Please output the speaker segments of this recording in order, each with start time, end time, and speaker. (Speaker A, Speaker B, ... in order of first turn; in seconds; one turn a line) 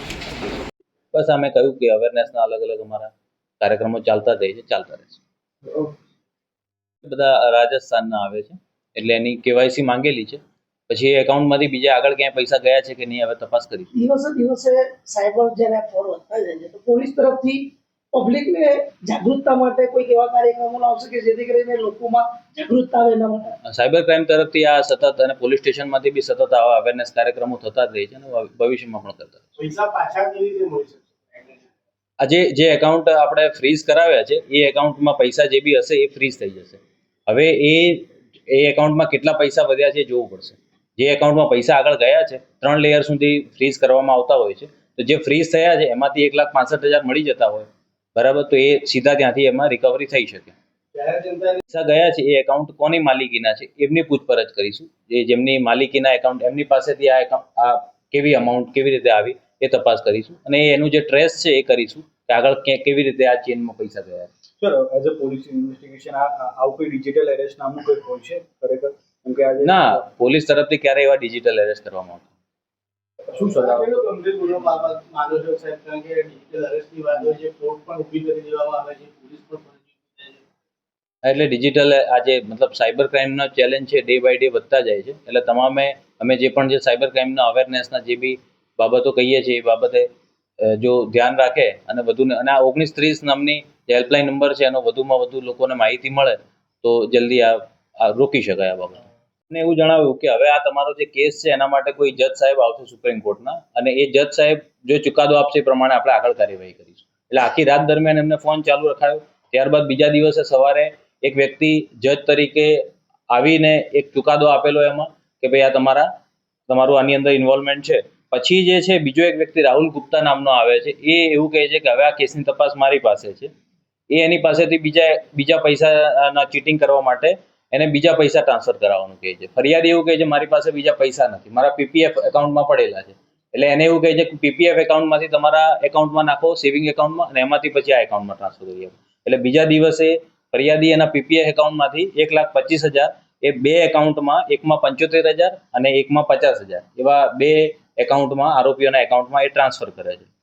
Speaker A: 1.1-5.2
Speaker A: 7.0-13.9
Speaker B: 13.9-23.5
Speaker A: 23.6-29.4
Speaker C: 29.6-31.7
Speaker A: 32.2-50.5
Speaker C: 50.9-51.6
Speaker A: 51.7-64.3
Speaker D: 64.6-70.0
Speaker A: 69.6-72.3
Speaker D: 73.3-74.2
Speaker C: 73.3-80.4
Speaker A: 81.2-90.1
Speaker A: 90.6-116.1
Speaker A: 116.7-123.5
Speaker A: 124.1-150.3